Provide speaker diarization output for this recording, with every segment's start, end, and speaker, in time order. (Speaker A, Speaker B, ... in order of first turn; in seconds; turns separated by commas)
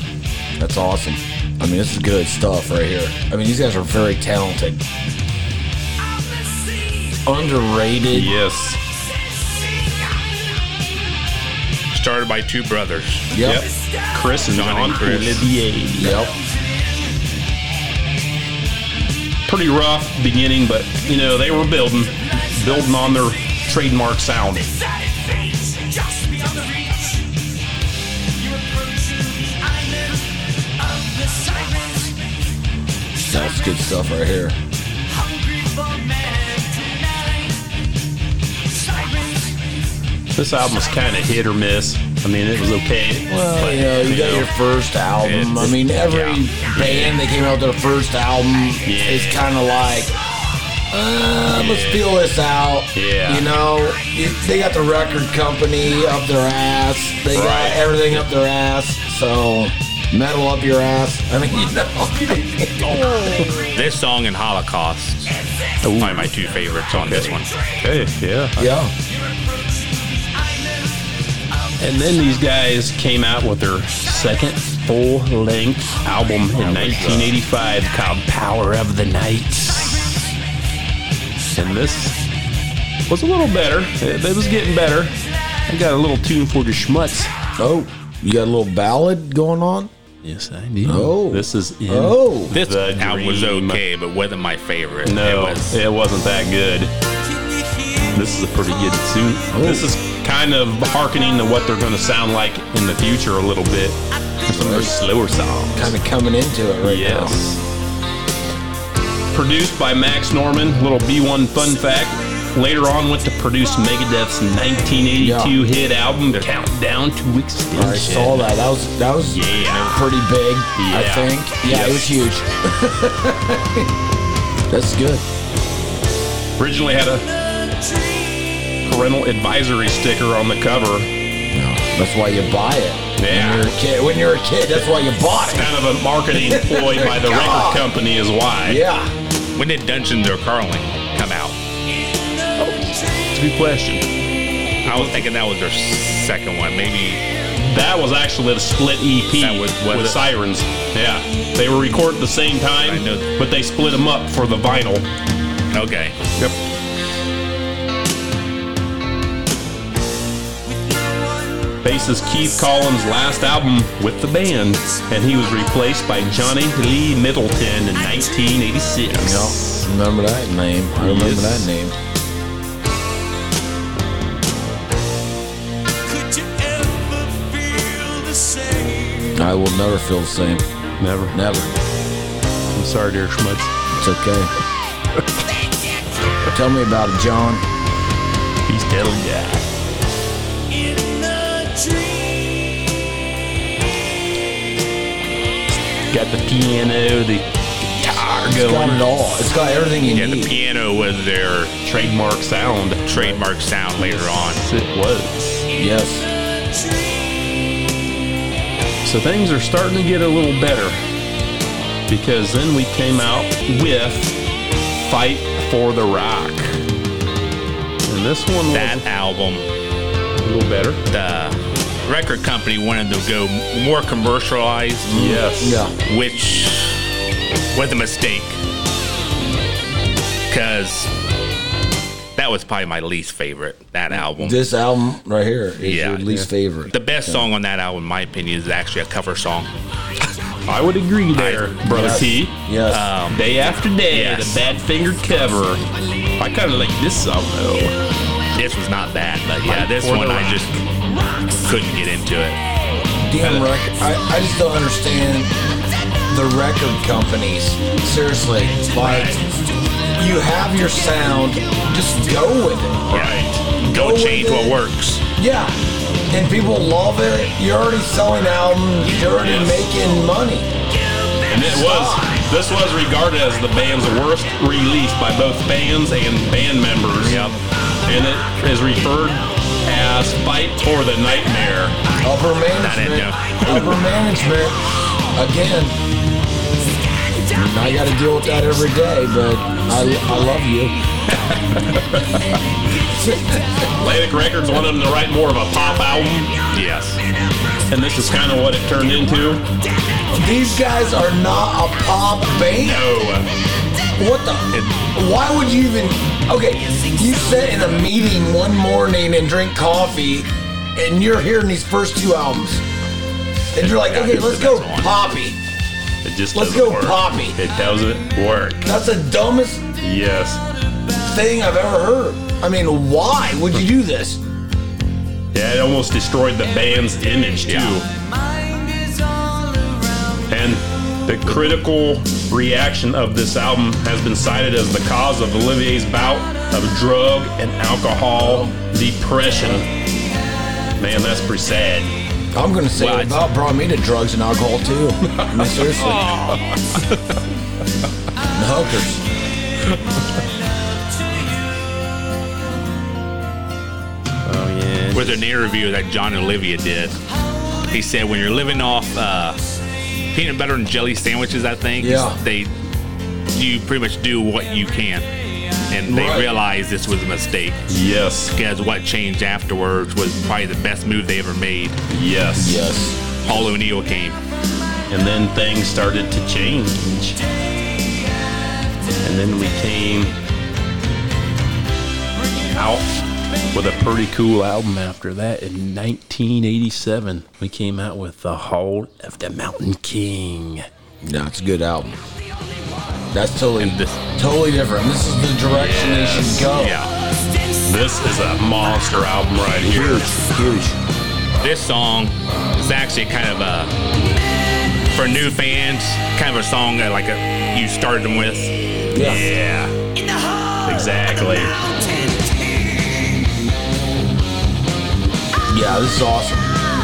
Speaker A: 0.6-4.8, Speaker A: 7.2-8.4, Speaker B: 8.1-8.8, Speaker C: 11.9-13.3, Speaker A: 13.3-13.7, Speaker B: 13.4-16.3, Speaker C: 14.5-15.5, Speaker A: 16.0-16.3, Speaker B: 19.4-24.7, Speaker D: 24.9-27.3, Speaker D: 28.4-30.3, Speaker D: 30.8-32.1, Speaker A: 33.1-34.6, Speaker D: 35.1-37.6, Speaker D: 38.7-39.6, Speaker B: 40.3-44.5, Speaker A: 43.3-50.1, Speaker B: 45.2-47.2, Speaker B: 48.8-49.4, Speaker A: 50.9-63.1, Speaker B: 51.5-52.1, Speaker B: 52.9-53.5, Speaker B: 57.3-58.2, Speaker B: 63.2-63.6, Speaker D: 63.4-63.7, Speaker C: 63.6-65.4, Speaker B: 65.8-68.7, Speaker C: 66.0-67.5, Speaker A: 68.6-68.9, Speaker D: 69.5-70.6, Speaker B: 71.8-80.2, Speaker C: 76.6-77.3, Speaker B: 81.5-82.2, Speaker B: 83.1-85.2, Speaker B: 85.7-87.3, Speaker A: 87.6-89.9, Speaker B: 90.2-93.8, Speaker A: 90.8-92.5, Speaker C: 92.5-95.8, Speaker B: 95.0-96.9, Speaker B: 98.1-105.9, Speaker A: 99.5-99.9, Speaker A: 104.5-105.0, Speaker A: 105.8-107.3, Speaker B: 106.8-107.6, Speaker B: 109.3-118.5, Speaker A: 115.2-115.6, Speaker A: 117.7-123.9, Speaker B: 119.2-120.2, Speaker B: 120.7-122.2, Speaker A: 124.7-125.2, Speaker B: 126.6-127.3, Speaker B: 128.8-131.1, Speaker A: 131.5-135.8, Speaker B: 133.2-133.7, Speaker B: 135.4-138.8, Speaker A: 136.3-137.9, Speaker A: 138.6-139.1, Speaker C: 139.6-141.6, Speaker B: 142.6-144.1, Speaker B: 144.8-145.2, Speaker C: 144.8-147.2, Speaker B: 147.6-155.1, Speaker C: 149.3-150.2, Speaker C: 152.8-153.3, Speaker C: 155.7-156.2, Speaker D: 160.7-161.8, Speaker B: 161.8-169.8, Speaker A: 169.1-171.9, Speaker B: 170.9-171.7, Speaker D: 176.1-179.3, Speaker A: 179.3-180.7, Speaker B: 181.0-181.4, Speaker A: 181.3-181.7, Speaker B: 182.7-183.7, Speaker A: 183.9-184.5, Speaker A: 186.4-187.6, Speaker B: 188.6-189.7, Speaker D: 190.7-192.7, Speaker B: 196.1-199.1, Speaker A: 198.1-200.5, Speaker C: 200.1-201.7, Speaker B: 201.8-203.1, Speaker C: 203.0-204.6, Speaker B: 204.0-205.6, Speaker A: 205.7-206.3, Speaker B: 209.0-211.0, Speaker B: 212.1-214.4, Speaker B: 215.0-216.8, Speaker B: 218.1-219.0, Speaker C: 218.7-219.7, Speaker B: 220.4-221.0, Speaker C: 221.1-225.2, Speaker A: 225.1-225.9, Speaker B: 225.1-225.8, Speaker C: 226.0-227.1, Speaker C: 227.7-228.6, Speaker C: 230.5-231.1, Speaker C: 232.3-234.6, Speaker A: 234.1-237.4, Speaker C: 235.8-239.7, Speaker B: 240.7-242.6, Speaker C: 241.3-241.8, Speaker A: 241.9-243.1, Speaker C: 242.9-243.4, Speaker B: 243.3-245.8, Speaker C: 244.1-244.6, Speaker B: 246.4-248.0, Speaker C: 248.5-250.8, Speaker B: 249.6-250.8, Speaker C: 251.6-252.6, Speaker A: 253.2-255.5, Speaker B: 253.4-253.7, Speaker A: 256.2-259.6, Speaker B: 258.9-259.4, Speaker A: 260.1-263.1, Speaker B: 263.1-263.7, Speaker C: 263.1-265.2, Speaker A: 263.8-264.8, Speaker A: 265.4-265.8, Speaker A: 266.3-270.7, Speaker C: 269.5-269.8, Speaker B: 271.4-277.4, Speaker A: 271.6-272.4, Speaker C: 277.2-277.6, Speaker A: 277.3-277.6, Speaker B: 278.0-282.0, Speaker A: 282.2-286.0, Speaker C: 282.8-283.9, Speaker A: 287.3-291.0, Speaker B: 291.4-292.5, Speaker A: 293.0-293.8, Speaker B: 294.0-296.5, Speaker C: 296.7-297.2, Speaker B: 297.9-299.7, Speaker A: 300.3-303.1, Speaker B: 302.8-303.5, Speaker A: 304.2-312.8, Speaker A: 313.7-315.6, Speaker C: 313.8-315.1, Speaker B: 316.2-318.9, Speaker A: 316.5-317.6, Speaker A: 318.8-319.9, Speaker B: 320.0-320.6, Speaker A: 321.1-324.4, Speaker B: 325.5-328.1, Speaker C: 327.7-328.0, Speaker D: 328.1-330.4, Speaker B: 330.5-339.9, Speaker A: 338.4-338.7, Speaker B: 341.0-342.1, Speaker A: 342.5-346.2, Speaker C: 342.9-343.4, Speaker A: 348.5-349.2, Speaker B: 354.4-355.4, Speaker C: 355.1-357.2, Speaker C: 357.9-359.6, Speaker C: 360.3-362.7, Speaker A: 362.0-362.4, Speaker C: 363.5-365.3, Speaker C: 365.9-367.8, Speaker A: 366.1-366.5, Speaker B: 367.9-368.5, Speaker C: 368.5-372.0, Speaker B: 372.1-372.8, Speaker A: 372.6-373.2, Speaker C: 373.4-374.4, Speaker B: 375.1-377.4, Speaker B: 379.2-380.4, Speaker B: 382.7-383.1, Speaker B: 383.7-390.9, Speaker A: 391.2-392.2, Speaker A: 393.3-397.0, Speaker C: 393.8-394.2, Speaker B: 395.7-396.7, Speaker C: 396.7-397.1, Speaker B: 397.8-400.4, Speaker A: 399.9-401.0, Speaker C: 401.6-403.9, Speaker C: 405.1-408.9, Speaker A: 409.1-409.5, Speaker B: 409.1-409.9, Speaker D: 410.2-410.8, Speaker B: 410.8-411.7, Speaker D: 411.9-413.2, Speaker A: 415.7-416.7